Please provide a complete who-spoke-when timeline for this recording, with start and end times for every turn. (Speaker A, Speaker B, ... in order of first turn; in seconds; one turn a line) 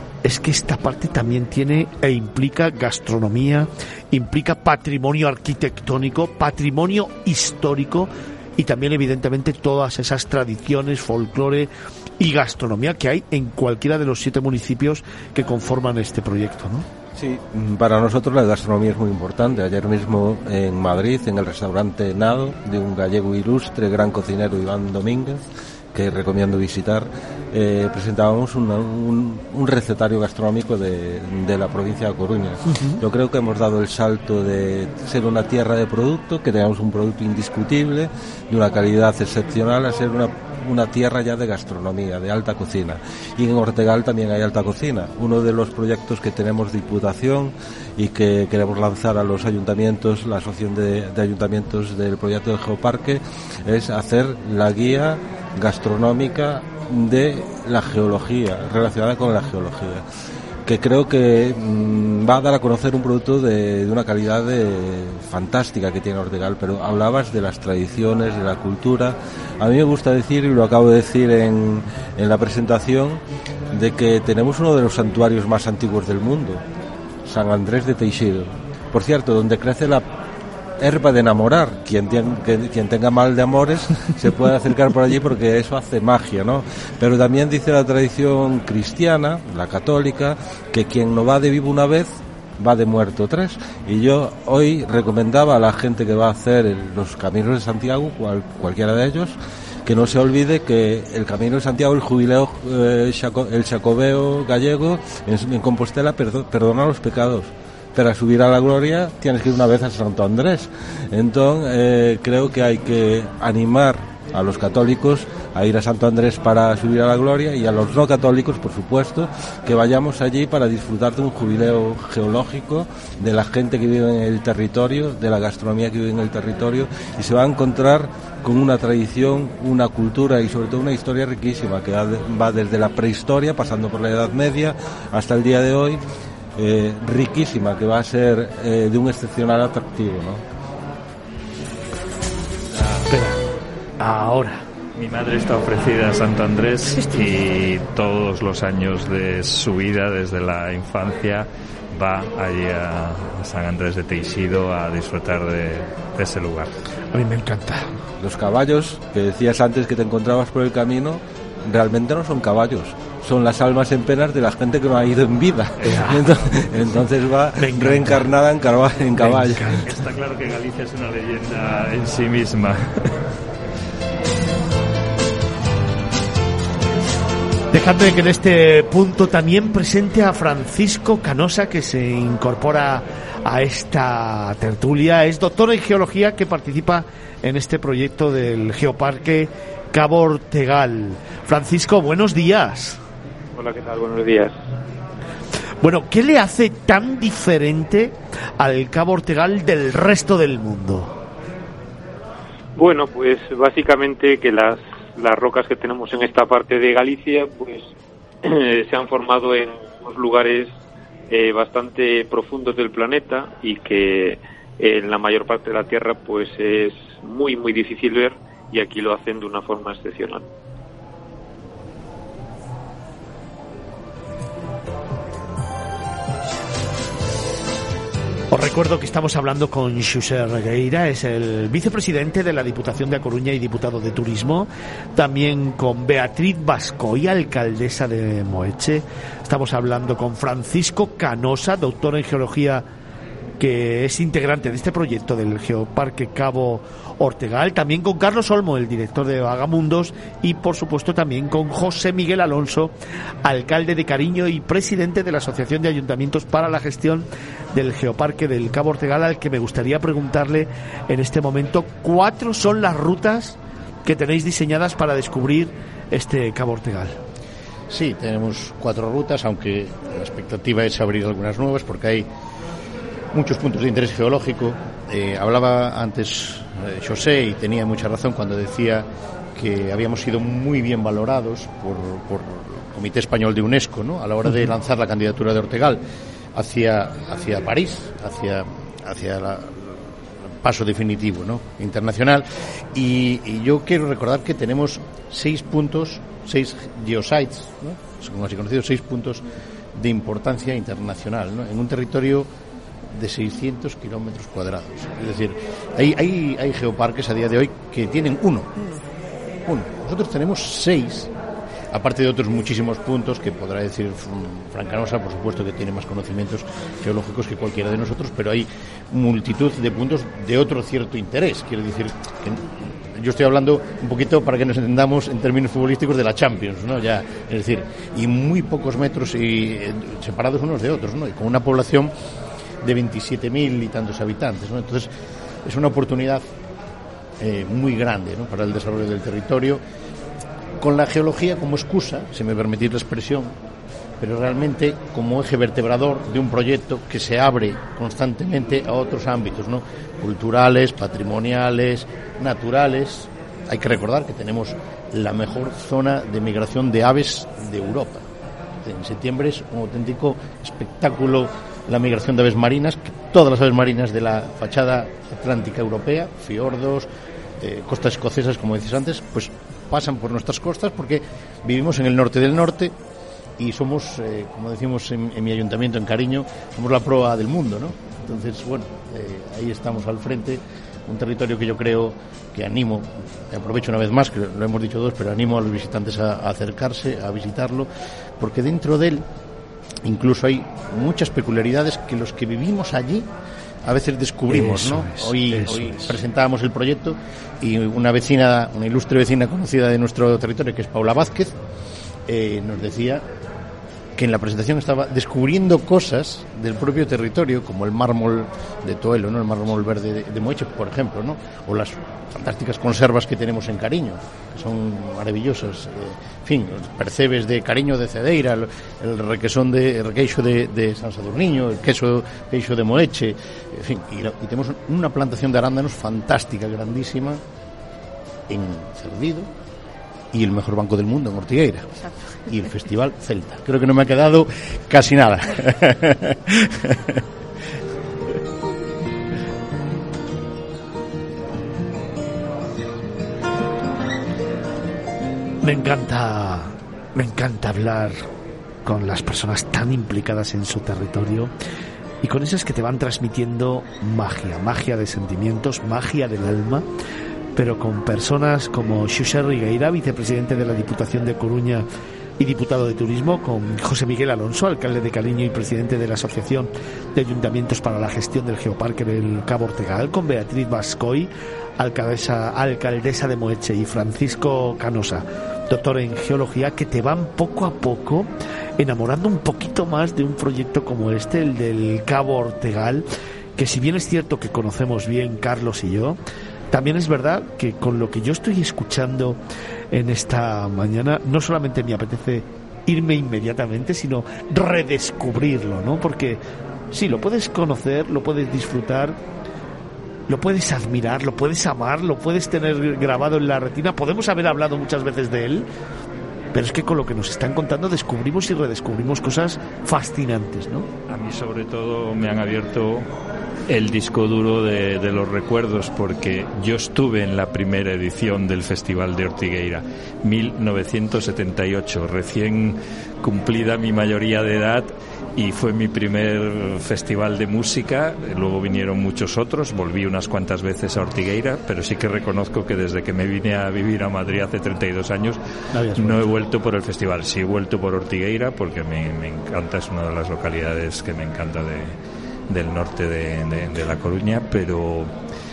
Speaker A: 0.2-16.9
Speaker B: 17.1-60.0
Speaker A: 32.7-33.0
Speaker B: 60.6-76.6
Speaker B: 77.2-80.0
Speaker B: 80.8-136.0
Speaker B: 136.6-140.4
Speaker A: 143.1-143.4
Speaker A: 144.0-144.6
Speaker C: 144.9-156.7
Speaker A: 157.1-157.9
Speaker B: 158.2-169.8
Speaker A: 165.8-166.3
Speaker A: 167.6-168.3
Speaker A: 169.2-169.9
Speaker C: 169.8-173.2
Speaker A: 177.7-193.0
Speaker D: 193.5-194.5
Speaker A: 195.8-201.2
Speaker D: 202.8-207.9
Speaker D: 208.4-210.7
Speaker D: 211.3-220.4
Speaker A: 228.5-242.8
Speaker A: 243.6-252.9
Speaker A: 253.4-267.2
Speaker E: 267.9-272.3
Speaker E: 273.3-286.0
Speaker E: 286.5-299.4
Speaker E: 299.9-302.5
Speaker E: 303.1-308.8
Speaker E: 309.6-311.3
Speaker E: 311.9-332.1
Speaker E: 332.8-335.1
Speaker E: 335.6-336.4
Speaker E: 337.4-339.8
Speaker E: 340.8-343.5
Speaker E: 344.2-358.2
Speaker E: 358.8-367.1
Speaker E: 367.6-372.9
Speaker E: 373.6-387.9
Speaker E: 388.4-389.2
Speaker E: 390.0-393.3
Speaker E: 393.8-401.5
Speaker A: 394.5-396.2
Speaker E: 402.3-403.2
Speaker E: 404.1-427.4
Speaker E: 428.5-429.5
Speaker E: 430.3-437.2
Speaker A: 445.6-448.2
Speaker A: 448.8-451.5
Speaker A: 452.2-456.8
Speaker A: 457.6-461.9
Speaker A: 462.4-486.2
Speaker A: 486.7-489.4
Speaker A: 489.9-496.4
Speaker A: 496.9-499.2
Speaker A: 500.3-505.7
Speaker A: 506.5-510.9
Speaker C: 511.1-513.1
Speaker C: 513.7-535.4
Speaker A: 535.7-536.2
Speaker C: 535.9-542.0
Speaker C: 542.5-545.1